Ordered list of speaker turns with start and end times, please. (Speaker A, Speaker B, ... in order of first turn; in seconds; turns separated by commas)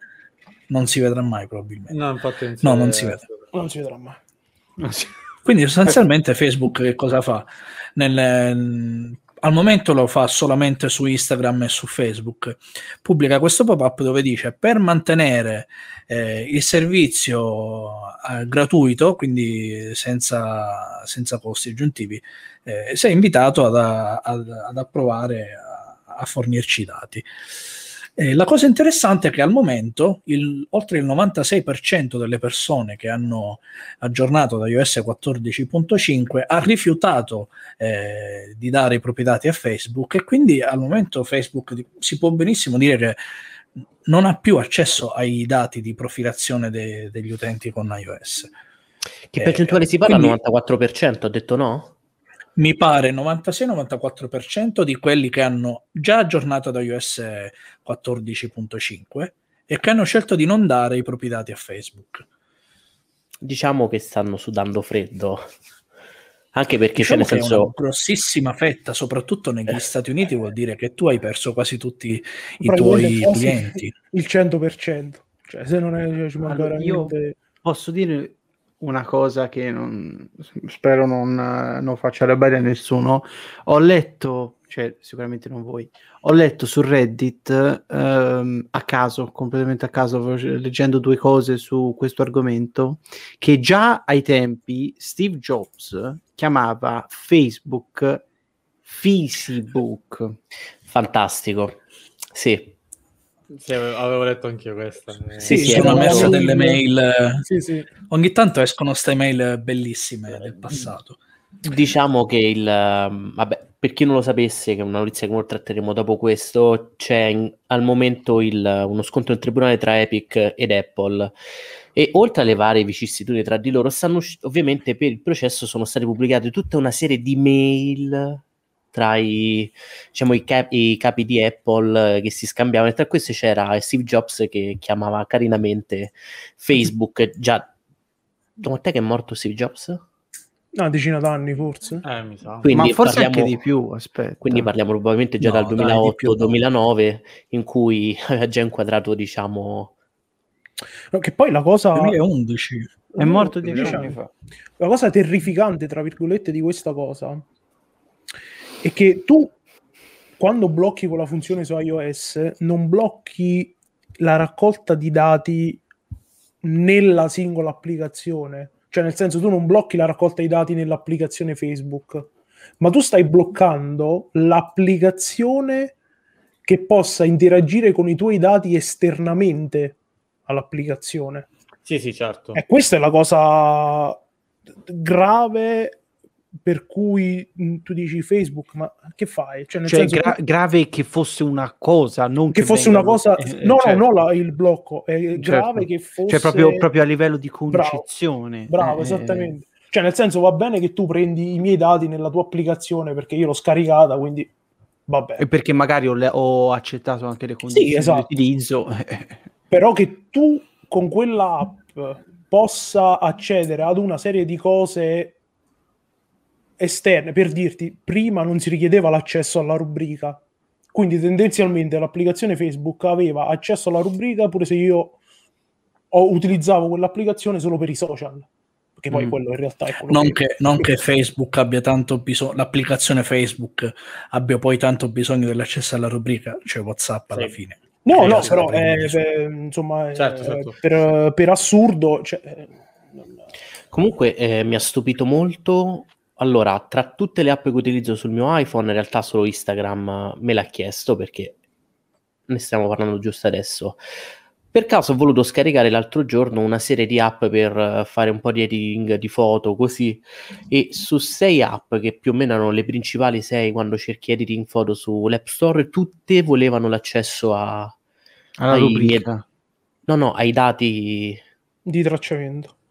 Speaker A: 0.7-2.0, Speaker B: 1.9-3.4, Speaker A: 2.6-3.2, Speaker C: 3.5-4.2, Speaker D: 4.8-5.1, Speaker A: 5.4-27.2, Speaker A: 28.2-43.2, Speaker A: 44.0-48.5, Speaker E: 49.3-51.9, Speaker A: 49.4-50.4, Speaker A: 52.6-62.2, Speaker E: 63.4-65.4, Speaker E: 66.5-67.7, Speaker A: 67.0-73.9, Speaker C: 72.6-77.4, Speaker D: 76.4-98.2, Speaker D: 98.8-100.4, Speaker E: 100.9-101.8, Speaker E: 102.3-102.7, Speaker B: 103.5-106.0, Speaker E: 105.4-106.4, Speaker C: 105.5-106.8, Speaker A: 105.5-107.5, Speaker C: 107.4-107.9, Speaker A: 108.1-111.2, Speaker B: 110.5-110.8, Speaker E: 111.6-121.3, Speaker E: 121.9-128.4, Speaker E: 128.9-137.7, Speaker E: 138.6-140.0, Speaker C: 140.7-142.0, Speaker B: 142.0-142.7, Speaker E: 142.6-143.6, Speaker D: 142.7-144.7, Speaker E: 144.4-149.9, Speaker A: 145.4-146.6, Speaker C: 151.1-152.2, Speaker A: 151.9-152.9, Speaker C: 153.1-154.2, Speaker D: 153.2-154.3, Speaker B: 153.7-154.0, Speaker C: 154.8-157.4, Speaker C: 158.8-159.5, Speaker C: 160.4-165.8, Speaker C: 166.6-175.9, Speaker C: 176.6-181.5, Speaker B: 181.8-182.6, Speaker C: 182.5-184.2, Speaker C: 184.8-186.0, Speaker C: 186.6-190.4, Speaker D: 189.9-194.1, Speaker C: 192.5-196.9, Speaker D: 195.3-199.5, Speaker C: 197.7-198.1, Speaker C: 198.7-204.5, Speaker C: 205.1-205.4, Speaker D: 205.4-209.4, Speaker C: 207.7-208.3, Speaker C: 209.7-215.3, Speaker C: 216.8-220.4, Speaker C: 220.9-225.2, Speaker C: 226.1-228.5, Speaker C: 229.0-230.8, Speaker A: 230.1-239.2, Speaker C: 238.0-243.3, Speaker B: 238.1-238.6, Speaker B: 240.1-240.8, Speaker E: 243.9-251.6, Speaker E: 252.5-254.0, Speaker E: 254.7-267.9, Speaker D: 268.6-269.4, Speaker E: 268.7-269.2, Speaker E: 270.1-271.4, Speaker C: 271.9-272.7